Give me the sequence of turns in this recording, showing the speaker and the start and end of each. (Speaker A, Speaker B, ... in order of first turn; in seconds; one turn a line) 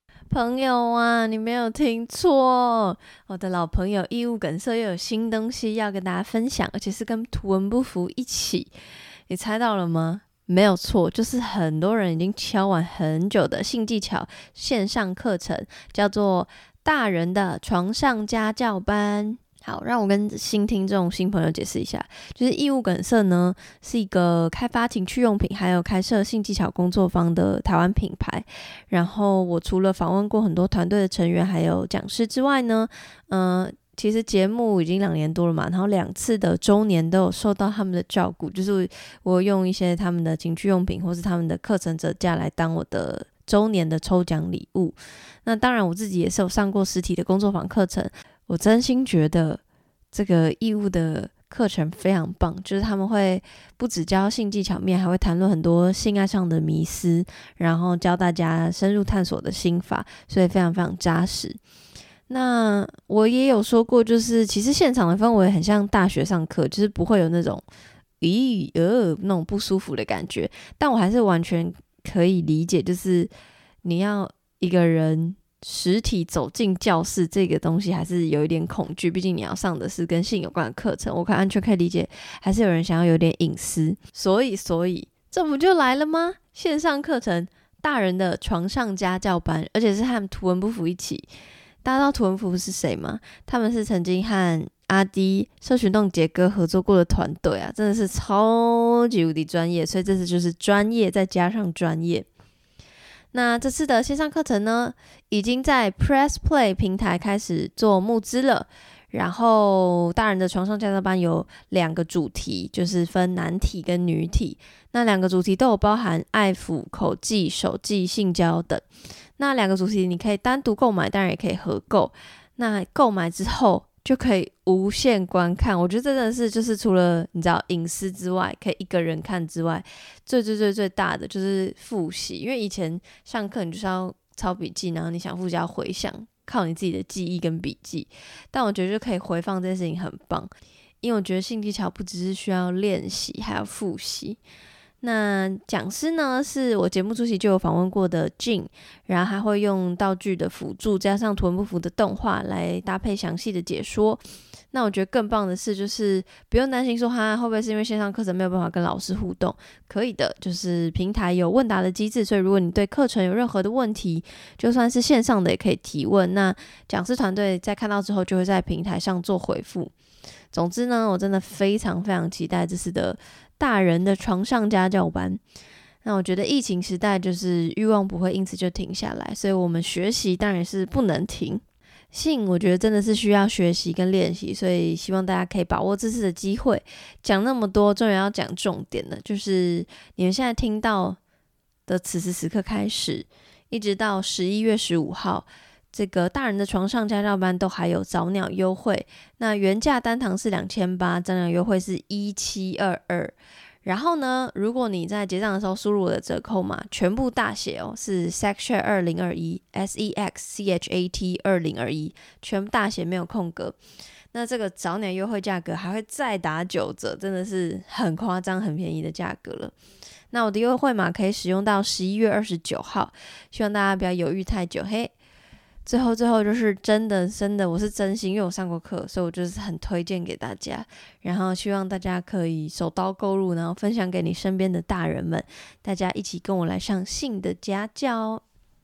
Speaker A: 0.3-8.7
Speaker A: 9.3-49.6
Speaker A: 50.1-61.6
Speaker A: 62.3-67.6
Speaker A: 68.2-73.3
Speaker A: 73.8-91.2
Speaker A: 91.8-102.2
Speaker A: 103.3-118.8
Speaker A: 119.4-140.5
Speaker A: 141.0-144.4
Speaker A: 145.0-154.2
Speaker A: 154.7-169.9
Speaker A: 170.5-175.4
Speaker A: 176.0-191.2
Speaker A: 191.9-213.8
Speaker A: 214.3-219.7
Speaker A: 220.3-225.1
Speaker A: 225.8-238.4